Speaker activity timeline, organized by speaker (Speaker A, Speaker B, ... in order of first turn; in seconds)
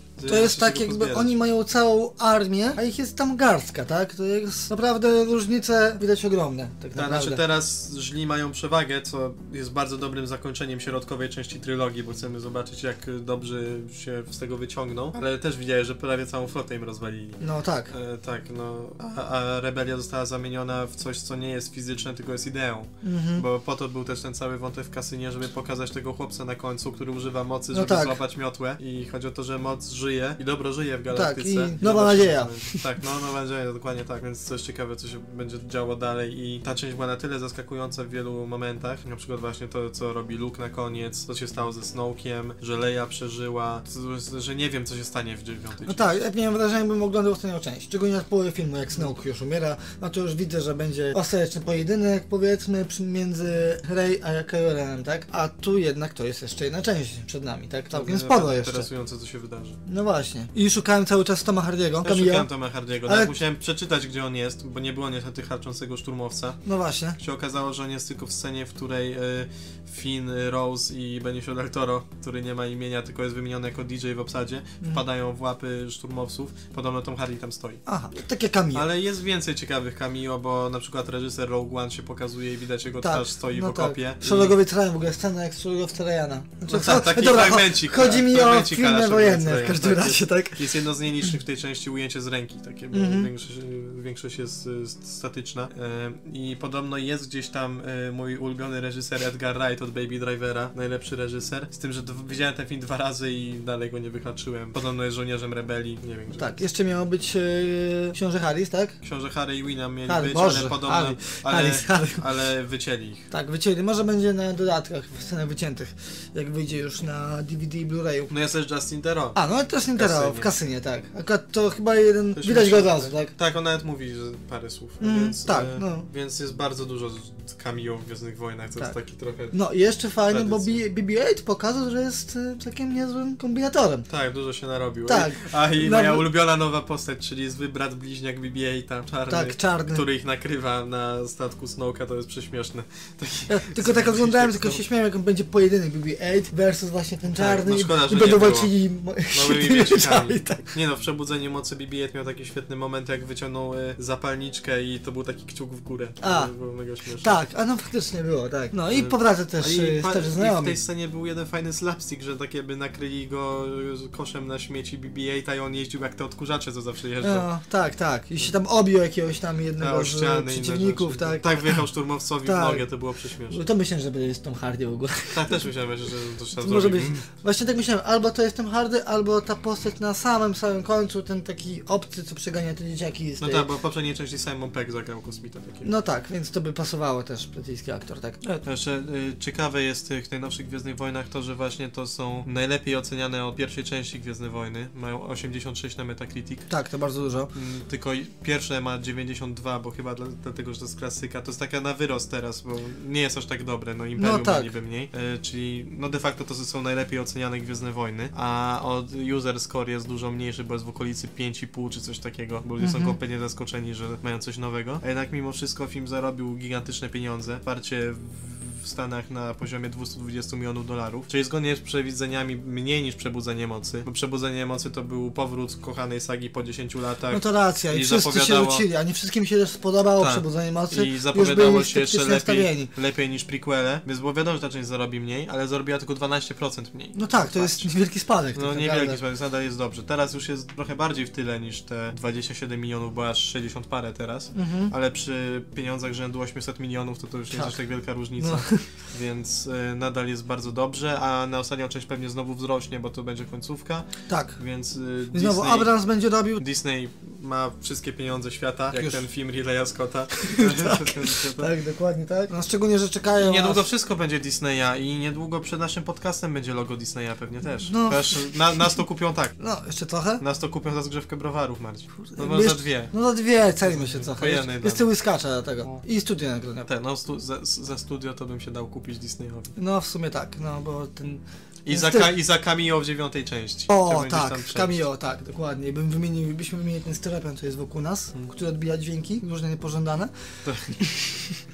Speaker A: 0.2-1.3, 7.0-46.1, 57.9-59.8, 62.0-66.6, 67.2-77.8, 78.7-84.6, 86.7-106.5, 109.0-113.3, 118.3-119.4, 120.0-120.5, 122.3-129.6, 130.3-130.8, 134.1-144.8, 147.3-148.7, 149.3-157.4, 158.9-167.5, 169.8-173.6, 175.3-177.2, 183.4-185.9, 188.6-196.7, 197.5-228.9, 230.2-237.9, 238.6-254.1, 254.6-256.0, 256.6-261.7, 263.4-269.6, 270.4-273.1, 273.8-275.1, 276.9-279.8, 281.9-285.0, 290.6-290.9
Speaker B: 0.2-7.4, 17.4-17.9, 23.0-23.5, 27.7-28.2, 31.1-32.8, 45.9-58.9, 59.9-62.5, 63.1-63.4, 66.6-67.2, 77.9-78.9, 83.0-91.3, 92.9-93.3, 106.3-109.0, 110.1-112.2, 113.3-118.3, 119.3-123.3, 125.0-126.1, 129.5-134.1, 135.1-136.3, 139.3-140.0, 143.5-150.7, 156.2-156.5, 157.2-160.8, 167.2-171.9, 172.4-172.9, 173.5-175.6, 176.6-183.7, 185.8-188.6, 196.7-197.5, 204.2-204.7, 212.8-213.2, 227.3-232.9, 237.1-239.2, 244.5-244.9, 247.5-247.8, 248.4-248.8, 254.3-254.6, 255.3-256.6, 258.9-259.2, 260.4-263.9, 267.9-268.6, 269.6-270.4, 272.2-276.9, 279.8-282.3, 283.9-290.3, 290.9-291.5